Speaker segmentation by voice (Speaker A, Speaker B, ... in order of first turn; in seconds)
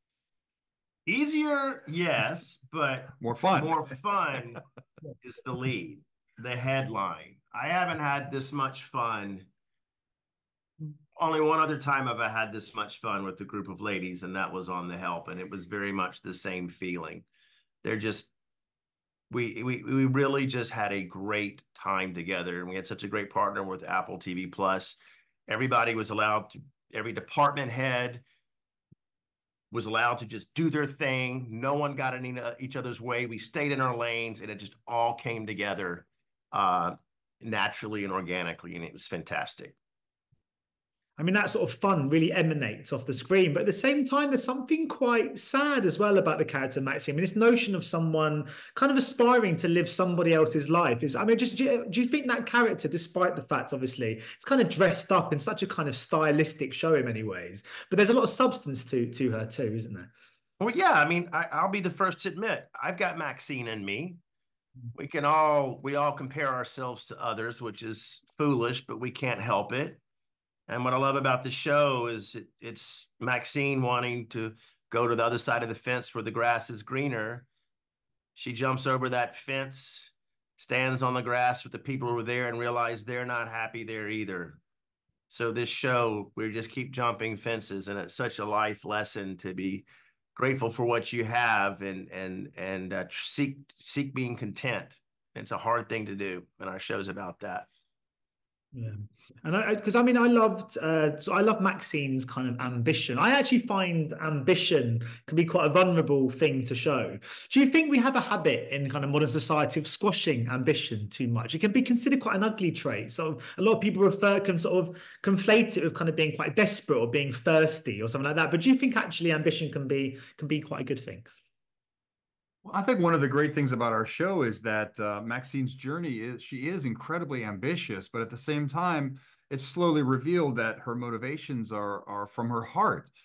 Speaker A: 1.1-4.6, 5.2-9.5, 11.2-17.2, 17.8-18.3, 19.3-28.2, 29.7-39.8, 60.6-64.2, 64.9-70.0, 70.7-77.5, 78.3-84.6, 85.3-97.7
Speaker B: 3.2-3.8, 122.6-133.1
Speaker C: 41.2-60.1, 98.7-121.2